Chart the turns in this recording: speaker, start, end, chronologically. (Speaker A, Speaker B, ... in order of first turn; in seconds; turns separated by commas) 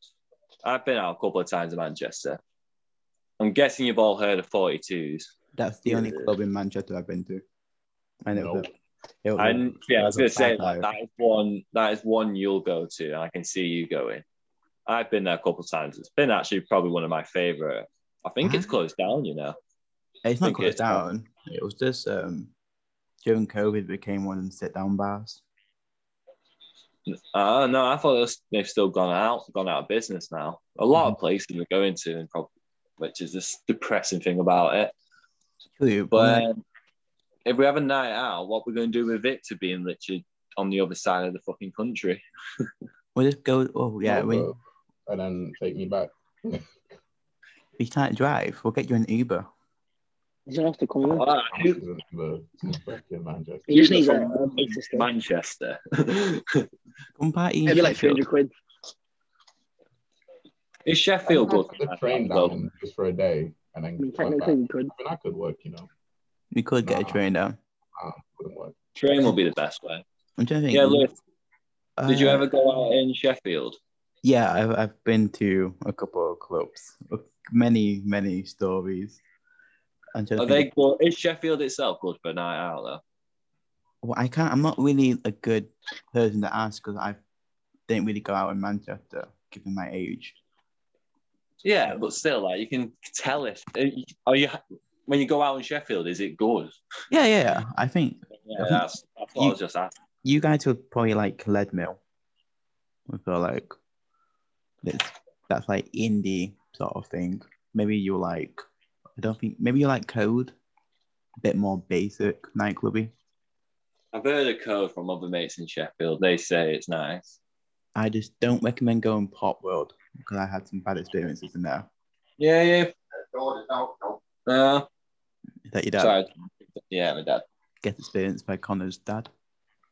Speaker A: 0.6-2.4, Speaker A: 3.4-5.3, Speaker B: 5.5-7.4, Speaker C: 5.9-6.3, Speaker B: 8.2-8.7, Speaker D: 8.3-8.7, Speaker B: 9.2-10.9, Speaker A: 9.4-14.2, Speaker A: 14.9-19.6, Speaker B: 18.4-18.7, Speaker B: 20.2-22.5, Speaker A: 20.4-21.0, Speaker B: 23.2-25.4, Speaker A: 27.1-34.9, Speaker B: 35.8-36.4, Speaker A: 36.1-36.6, Speaker A: 37.4-42.6, Speaker B: 43.1-44.5, Speaker D: 44.0-46.7, Speaker B: 47.8-49.5, Speaker C: 50.5-51.2, Speaker A: 51.1-51.8, Speaker D: 51.5-54.3, Speaker C: 53.7-55.1, Speaker A: 53.7-56.7, Speaker B: 57.2-58.2, Speaker C: 57.6-58.5, Speaker A: 60.9-62.5, Speaker D: 61.3-65.9, Speaker C: 64.0-64.9, Speaker B: 66.5-67.6, Speaker D: 66.8-67.2, Speaker D: 68.0-68.8, Speaker A: 69.0-70.0, Speaker B: 70.4-71.1, Speaker A: 70.7-71.1, Speaker B: 72.0-72.5, Speaker A: 72.1-73.8, Speaker B: 74.2-79.2, Speaker B: 80.1-80.7, Speaker A: 80.4-83.0, Speaker B: 84.0-87.2, Speaker B: 87.9-90.3, Speaker A: 91.6-96.8, Speaker B: 97.1-98.8, Speaker A: 98.4-99.9, Speaker B: 100.2-102.0, Speaker B: 103.1-103.7, Speaker B: 104.8-108.6, Speaker B: 109.2-110.5, Speaker B: 111.4-113.1, Speaker A: 114.1-117.4, Speaker B: 117.9-121.9, Speaker A: 122.4-124.9, Speaker B: 125.7-126.2, Speaker A: 126.0-127.4, Speaker B: 127.8-129.3